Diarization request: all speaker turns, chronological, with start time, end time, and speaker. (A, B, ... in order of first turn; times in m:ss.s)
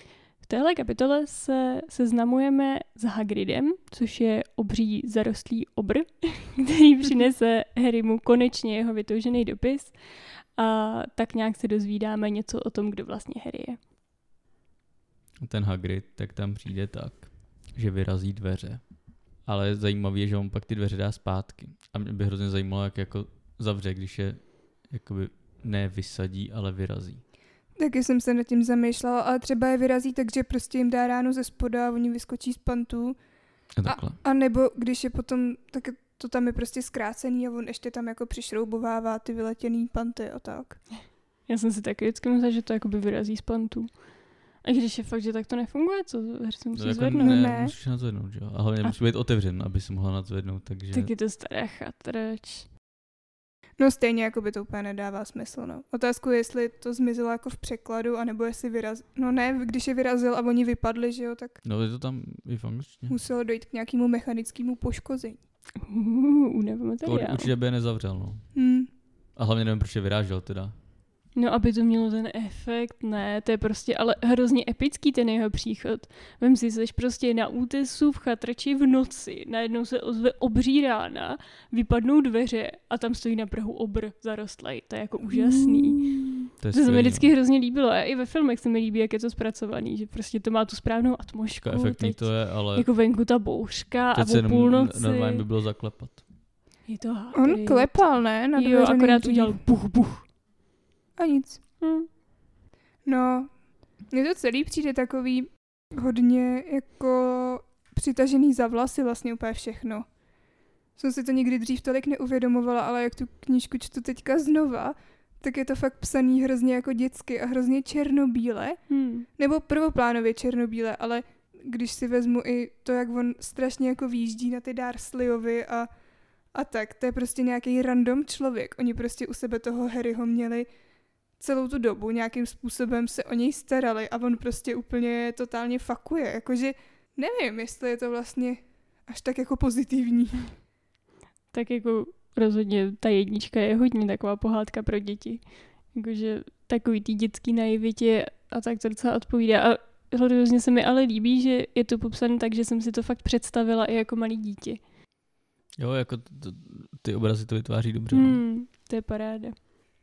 0:00.4-0:10.0 A
0:10.6-0:13.8 A
0:15.4-0:18.8 B
0:19.4-0:27.2 B
0:27.8-0:33.2 C
0:33.8-0:34.2 B
0:33.8-0:40.8 C
0:41.5-0:44.0 A
0:44.6-0:47.5 A
0:46.7-0:51.1 B
0:47.1-0:47.8 C
0:50.9-0:52.7 A
0:53.8-1:01.6 C
1:01.6-1:03.2 B
1:03.1-1:05.4 C
1:05.8-1:07.5 A
1:07.0-1:08.5 B
1:08.5-1:08.9 C
1:09.3-1:10.7 B
1:11.3-1:26.0 A
1:25.4-1:25.9 C
1:26.6-1:27.3 B
1:26.7-1:35.4 A
1:31.6-1:32.9 B
1:34.1-1:36.2 B
1:36.9-1:40.3 A
1:37.3-1:39.6 C
1:41.2-1:41.6 C
1:41.8-1:42.1 A
1:43.1-1:43.5 C
1:44.1-1:50.1 C
1:51.0-1:58.8 C
1:58.9-1:59.3 A
1:59.4-2:05.9 C
2:06.5-2:10.7 C
2:11.4-2:20.5 C
2:21.5-2:34.8 A
2:35.8-2:38.4 B
2:38.1-2:39.7 A